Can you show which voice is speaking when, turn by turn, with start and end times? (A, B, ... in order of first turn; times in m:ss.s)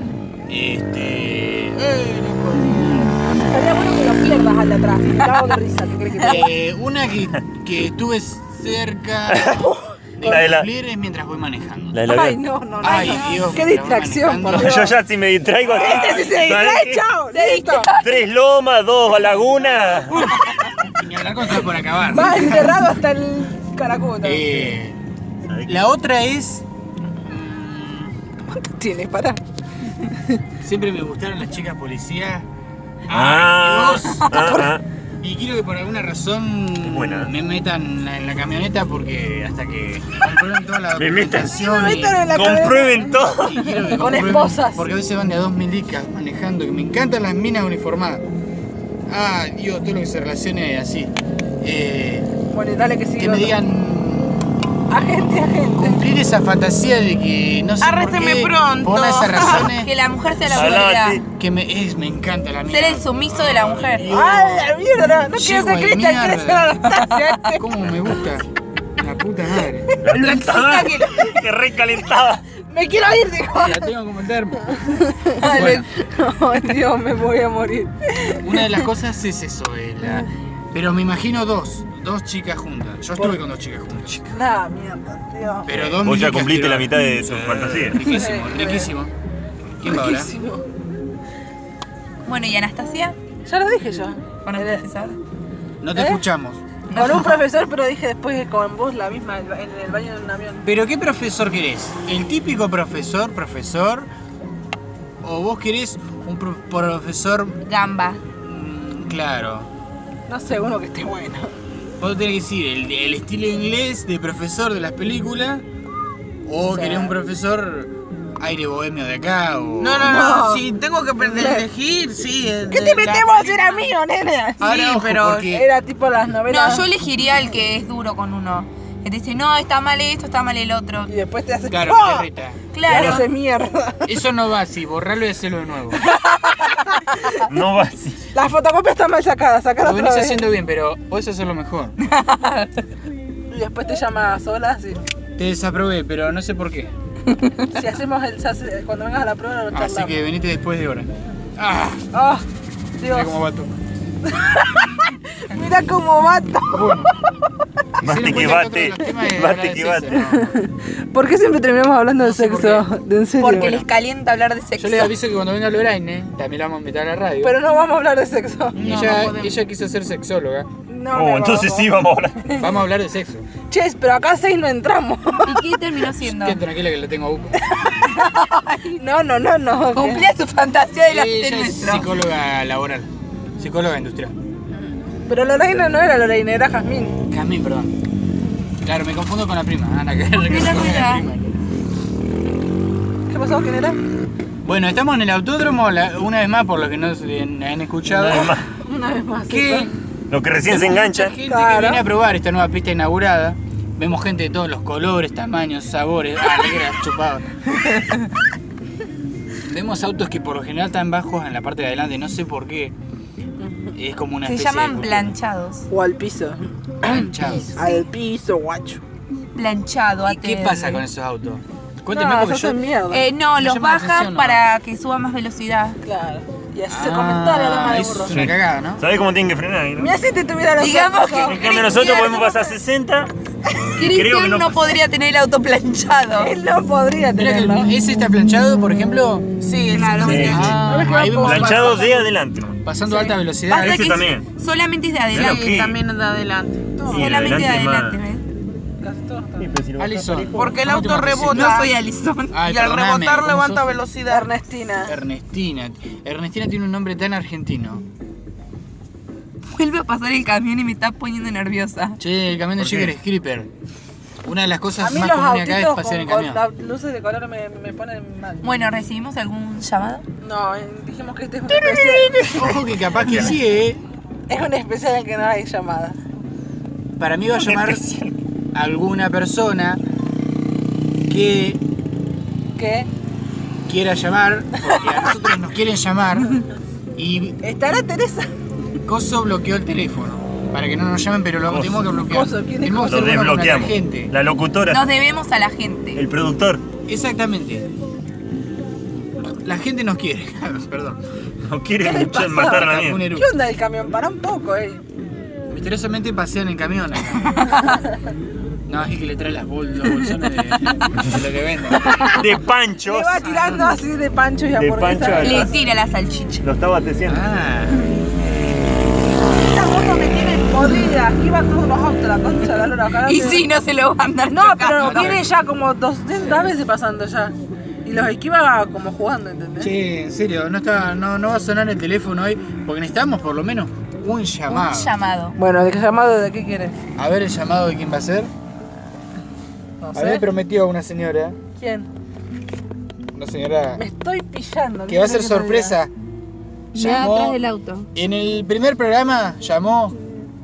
0:00.5-0:03.1 A
0:03.5-0:06.5 B
0:06.2-0:12.1 A
0:09.3-0:09.7 C
0:10.2-0:10.7 C
0:11.9-0:12.4 C
0:12.1-0:15.0 B
0:12.8-0:15.0 A
0:14.5-0:17.1 C
0:15.7-0:16.3 A
0:15.7-0:17.9 B
0:17.3-0:18.3 D
0:18.0-0:20.4 C
0:20.4-0:22.8 A
0:22.1-0:24.7 B
0:24.2-0:25.0 A
0:25.4-0:25.8 C
0:25.7-0:26.7 A
0:27.2-0:28.2 A
0:28.5-0:29.4 B
0:30.0-0:30.4 B
0:30.6-0:32.5 A
0:33.1-0:34.6 A
0:33.1-0:34.8 C
0:34.3-0:34.7 B
0:35.2-0:42.3 A
0:36.8-0:37.3 C
0:41.0-0:41.5 C
0:41.5-0:43.2 B
0:42.3-0:43.7 C
0:43.4-0:48.2 A
0:43.7-0:44.8 B
0:49.1-0:52.3 A
0:52.5-0:53.6 B
0:53.2-0:54.6 A
0:54.9-0:56.0 B
0:55.8-0:59.9 A
0:57.8-0:59.7 E
0:59.7-1:01.2 D
1:00.4-1:04.8 A
1:00.5-1:01.2 C
1:02.7-1:04.1 D
1:04.1-1:07.7 B
1:05.3-1:10.0 A
1:10.0-1:12.4 C
1:10.0-1:11.4 B
1:10.2-1:11.1 D
1:12.6-1:13.9 B
1:13.5-1:14.8 A
1:14.7-1:18.8 B
1:15.4-1:15.9 D
1:15.4-1:15.9 A
1:18.4-1:24.4 A
1:24.3-1:26.0 B
1:25.6-1:29.1 A
1:26.0-1:28.0 C
1:28.0-1:28.9 B
1:29.8-1:30.3 A
1:29.8-1:30.6 B
1:32.3-1:33.2 D
1:33.5-1:34.8 B
1:34.4-1:35.2 D
1:35.8-1:36.6 A
1:36.0-1:36.2 B
1:36.9-1:37.3 D
1:36.9-1:40.7 B
1:40.6-1:44.1 A
1:45.2-1:47.6 A
1:47.6-1:48.2 D
1:48.4-1:49.7 A
1:50.3-1:51.5 B
1:52.0-1:55.6 A
1:56.4-2:00.2 A
1:56.7-1:57.2 B
1:59.8-2:03.6 E
2:00.0-2:00.6 B
2:01.2-2:01.6 B
2:02.7-2:04.7 B
2:04.6-2:05.7 A
2:04.6-2:05.5 E
2:05.5-2:06.9 B
2:06.5-2:11.1 D
2:11.1-2:12.3 B
2:11.7-2:12.6 A
2:12.7-2:13.3 D
2:12.9-2:14.1 B
2:12.9-2:13.2 C
2:14.0-2:16.0 A
2:16.0-2:17.5 B
2:17.5-2:18.2 C
2:18.3-2:20.5 B
2:19.8-2:22.0 A
2:22.0-2:22.7 D
2:23.5-2:25.0 B
2:25.4-2:26.9 A
2:27.7-2:30.2 B
2:29.7-2:32.1 A
2:32.1-2:32.4 B
2:33.0-2:33.3 B
2:33.0-2:33.7 A
2:34.2-2:36.9 B
2:36.7-2:37.1 A
2:38.0-2:40.2 C
2:38.0-2:40.5 A
2:40.1-2:43.8 B
2:42.2-2:42.9 A
2:43.4-2:45.1 D
2:44.8-2:47.6 A
2:47.4-2:49.2 B
2:48.8-2:50.7 A
2:48.8-2:49.5 E
2:50.9-2:52.7 B
2:51.1-2:52.5 C
2:52.5-2:53.5 A
2:53.7-2:55.7 B
2:55.4-2:56.6 D
2:56.1-2:57.7 A
2:57.7-3:00.3 B
2:59.9-3:02.1 D
3:01.0-3:04.4 A
3:05.3-3:07.2 B
3:07.3-3:08.0 A
3:08.8-3:11.6 A
3:10.4-3:11.3 D
3:13.3-3:14.0 B
3:14.6-3:18.6 A
3:18.1-3:18.7 C
3:18.8-3:19.9 B
3:19.5-3:19.9 A
3:20.3-3:21.4 C
3:20.6-3:27.5 A
3:21.4-3:22.0 B
3:29.6-3:32.9 A
3:33.6-3:33.9 B
3:34.0-3:35.4 A
3:34.4-3:35.9 D
3:35.9-3:37.2 B
3:37.0-3:37.9 A
3:37.8-3:39.0 B
3:39.6-3:41.0 D
3:40.2-3:42.8 A
3:42.1-3:43.3 B
3:43.1-3:46.0 D
3:43.6-3:44.6 A
3:46.0-3:48.4 B
3:46.9-3:49.1 A
3:48.3-3:50.1 C
3:50.0-3:52.7 B
3:50.8-3:52.5 D
3:51.4-3:53.3 C
3:54.0-3:54.9 C
3:54.0-3:56.5 D
3:56.4-3:57.9 B
3:57.4-3:59.5 A
3:59.6-4:01.1 E
3:59.9-4:00.8 D
4:00.2-4:02.8 C
4:00.4-4:02.1 A
4:00.7-4:02.3 B
4:02.8-4:04.2 A
4:03.7-4:05.8 D
4:03.7-4:04.5 C
4:05.3-4:06.0 C
4:05.3-4:07.1 E
4:07.0-4:07.3 B
4:07.1-4:08.2 C
4:07.1-4:08.4 D
4:09.0-4:09.7 B
4:09.6-4:11.1 C
4:10.0-4:11.9 A
4:10.6-4:11.9 E
4:11.4-4:12.6 D
4:12.5-4:13.9 A
4:12.6-4:14.5 E
4:14.3-4:15.2 B
4:15.0-4:18.0 A
4:19.7-4:22.2 D
4:22.2-4:23.7 A
4:22.8-4:23.1 C
4:24.4-4:26.6 A
4:25.0-4:28.7 B
4:28.6-4:30.2 D
4:30.4-4:32.7 B
4:31.7-4:34.0 A
4:33.2-4:33.6 C
4:34.5-4:36.2 B
4:37.2-4:38.0 A
4:37.6-4:38.3 C
4:38.7-4:40.0 A
4:41.3-4:41.8 A
4:42.8-4:43.1 B
4:43.9-4:46.6 A
4:47.2-4:47.6 A
4:47.6-4:48.5 B
4:49.0-4:54.3 A
4:51.7-4:52.0 C
4:52.2-4:53.6 B
4:53.0-4:55.1 C
4:54.9-4:56.2 D
4:56.2-4:56.8 C
4:57.1-4:57.9 A
4:59.5-5:01.2 A
5:01.6-5:03.2 C
5:02.0-5:05.0 B
5:02.5-5:03.5 A
5:05.7-5:07.8 A
5:07.7-5:08.0 B
5:08.9-5:12.2 A
5:12.0-5:12.4 B
5:12.2-5:13.6 C
5:13.0-5:15.7 B
5:14.7-5:15.8 C
5:15.4-5:16.6 D
5:16.6-5:17.4 C
5:17.3-5:18.0 A
5:19.6-5:23.6 B
5:23.2-5:25.4 D
5:24.5-5:29.9 B
5:25.0-5:25.4 A
5:29.8-5:35.1 A
5:34.7-5:35.6 D
5:35.6-5:37.0 B
5:37.2-5:38.5 A
5:40.0-5:40.4 B
5:40.1-5:41.6 A
5:41.8-5:42.1 B
5:43.3-5:44.0 A
5:44.0-5:46.0 B
5:45.1-5:46.1 A
5:46.9-5:47.6 A
5:46.9-5:48.1 D
5:48.2-5:50.2 A